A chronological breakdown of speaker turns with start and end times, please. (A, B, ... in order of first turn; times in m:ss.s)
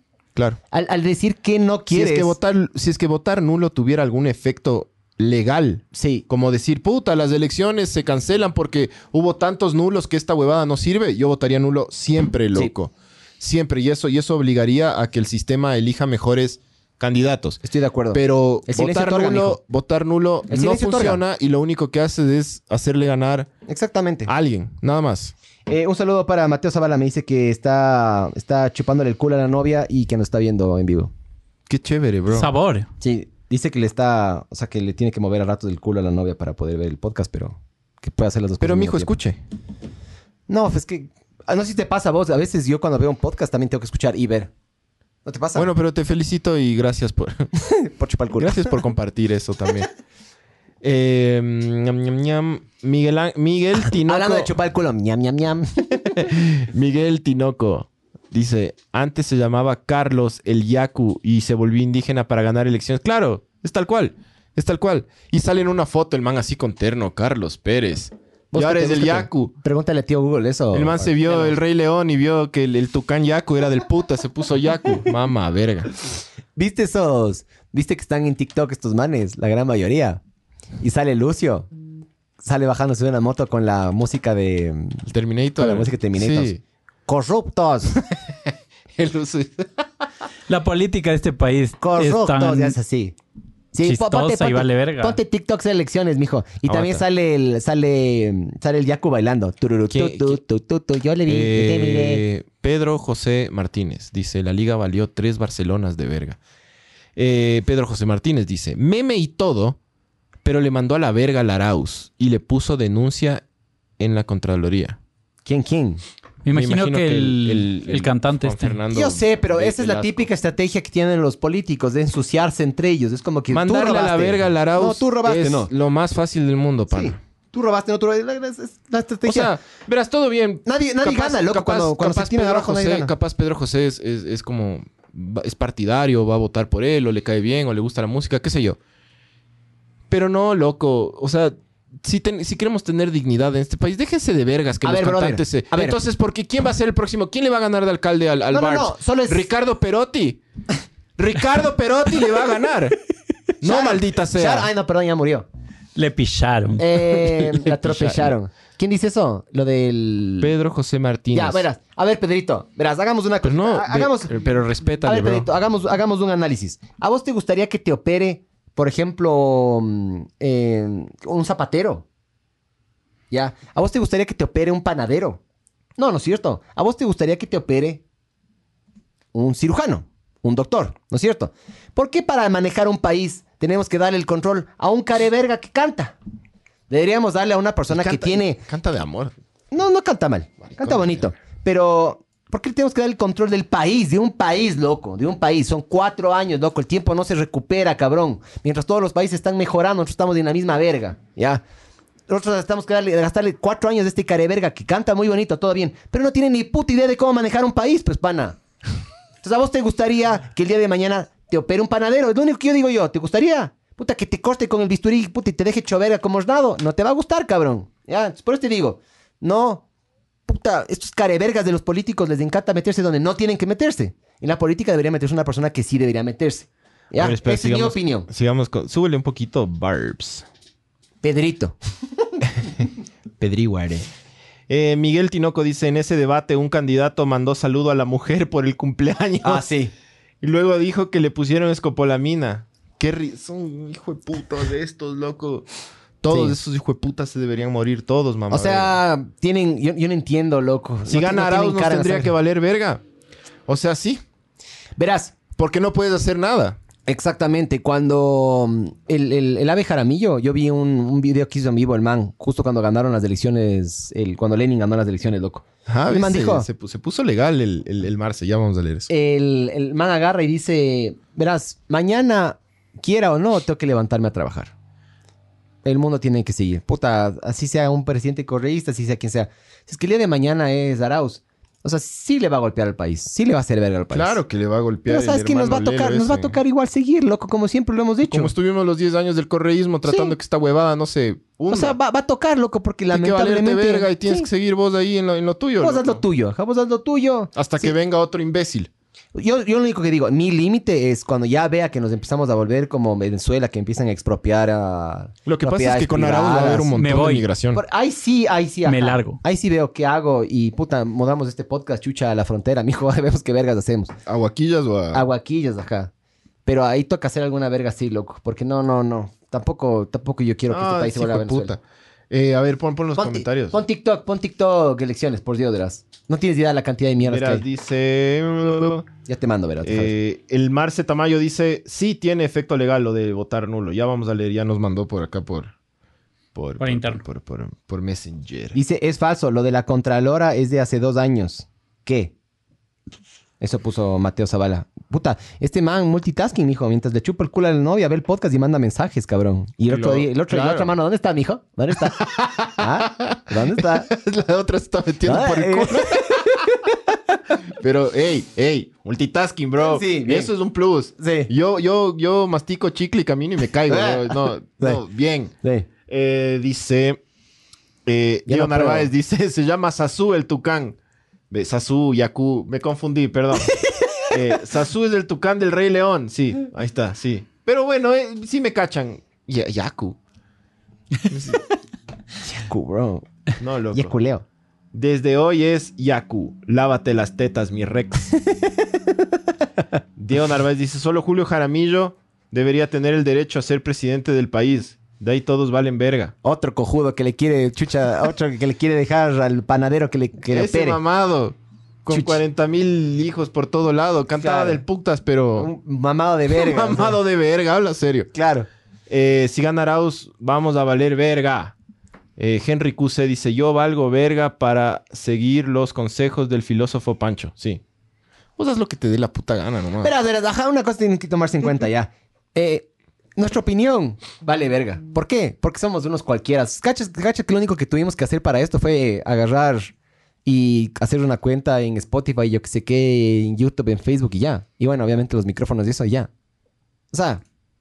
0:00.7-0:02.4 A
0:01.9-0:17.6 B
0:05.9-0:06.2 A
0:17.6-0:19.6 A
0:18.1-0:23.5 B
0:20.5-0:21.2 A
0:23.7-0:24.3 A
0:24.3-0:25.3 B
0:25.7-0:31.1 A
0:31.7-0:32.5 B
0:32.3-0:32.9 C
0:33.0-0:39.1 A
0:38.6-0:39.4 B
0:40.5-0:44.5 A
0:45.2-0:45.7 A
0:45.5-0:47.5 B
0:47.6-0:48.7 A
0:48.4-0:49.9 B
0:50.8-0:54.5 B
0:53.8-0:56.3 A
0:56.2-1:09.5 B
1:08.5-1:11.6 A
1:10.7-1:15.9 B
1:16.6-1:20.2 A
1:20.8-1:21.7 A
1:22.4-1:25.0 A
1:25.1-1:26.6 B
1:25.6-1:26.5 A
1:27.1-1:28.0 A
1:28.0-1:29.9 B
1:30.5-1:32.8 C
1:31.8-1:33.1 A
1:33.7-1:42.2 A
1:33.8-1:35.2 C
1:36.6-1:37.0 B
1:39.9-1:40.4 B
1:41.2-1:46.4 B
1:47.2-1:49.8 B
1:50.4-1:53.4 B
1:54.0-1:55.0 B
1:55.4-1:56.0 A
1:56.4-1:58.8 C
1:56.5-2:00.3 B
1:58.9-2:05.7 A
2:03.5-2:07.2 B
2:06.9-2:09.6 A
2:09.2-2:18.8 B
2:10.6-2:13.1 A
2:20.1-2:30.4 B
2:24.8-2:26.0 A
2:28.5-2:29.4 A
2:31.2-2:33.0 B
2:33.6-2:34.7 B
2:33.6-2:35.5 A
2:36.0-2:36.8 C
2:36.8-2:40.5 A
2:37.1-2:38.3 B
2:40.4-2:41.6 B
2:41.3-2:44.3 A
2:43.4-2:45.5 B
2:45.0-2:52.0 A
2:53.3-2:55.4 A
2:56.0-2:58.0 A
2:59.3-3:06.2 A
3:06.9-3:08.6 A
3:07.9-3:09.3 B
3:09.7-3:21.6 A
3:10.8-3:11.2 B
3:22.3-3:28.6 A
3:29.4-3:39.8 A
3:40.5-3:48.3 A
3:47.1-3:50.4 B
3:51.2-3:51.8 A
3:53.4-3:54.1 B
3:54.7-3:59.7 B
3:59.4-3:59.9 A
4:00.4-4:05.7 B
4:06.2-4:09.0 B
4:06.3-4:06.6 A
4:08.5-4:12.3 A
4:11.1-4:13.0 B
4:13.7-4:14.2 B
4:15.0-4:15.4 A
4:15.6-4:16.8 B
4:17.0-4:26.7 A
4:25.9-4:29.1 B
4:29.1-4:34.7 A
4:35.8-4:44.4 A
4:44.1-4:46.6 B
4:45.1-4:48.5 A
4:48.2-4:52.0 B
4:50.0-4:50.3 A
4:51.7-4:54.5 A
4:53.1-4:56.2 B
4:55.8-4:57.9 A
4:57.5-4:58.9 B
4:59.3-5:06.9 A
5:05.4-5:07.8 B
5:06.9-5:07.5 C
5:07.7-5:14.1 A
5:08.8-5:09.4 C
5:14.2-5:15.2 B
5:15.1-5:16.1 A
5:16.6-5:21.8 A
5:20.7-5:23.8 B
5:23.2-5:27.6 A
5:27.2-5:29.1 B
5:29.3-5:30.1 A
5:29.8-5:35.7 B
5:36.5-5:38.8 B
5:36.8-5:37.2 C
5:38.7-5:42.3 A
5:43.6-5:54.1 A
5:49.9-5:50.9 B
5:52.0-5:56.8 B
5:55.2-5:57.0 A
5:57.8-6:05.5 B
5:59.8-6:00.5 A
6:01.2-6:01.5 A
6:03.9-6:05.0 A
6:05.6-6:05.9 A
6:06.1-6:07.2 B
6:08.0-6:11.0 B
6:08.4-6:09.1 A
6:11.5-6:20.2 B
6:13.8-6:14.3 A
6:21.3-6:21.6 B
6:22.4-6:23.3 A
6:23.6-6:24.1 B
6:23.9-6:24.4 A
6:24.9-6:28.3 B
6:30.2-6:36.3 B
6:36.4-6:41.0 A
6:40.5-6:45.7 B
6:42.1-6:42.4 A
6:44.4-6:44.8 A
6:45.6-6:47.2 A
6:46.5-6:48.3 B
6:48.3-6:48.7 A
6:49.1-6:51.7 B
6:52.4-6:57.8 B
6:58.6-7:00.1 B
7:00.0-7:09.9 A
7:10.4-7:16.3 A
7:17.1-7:17.4 A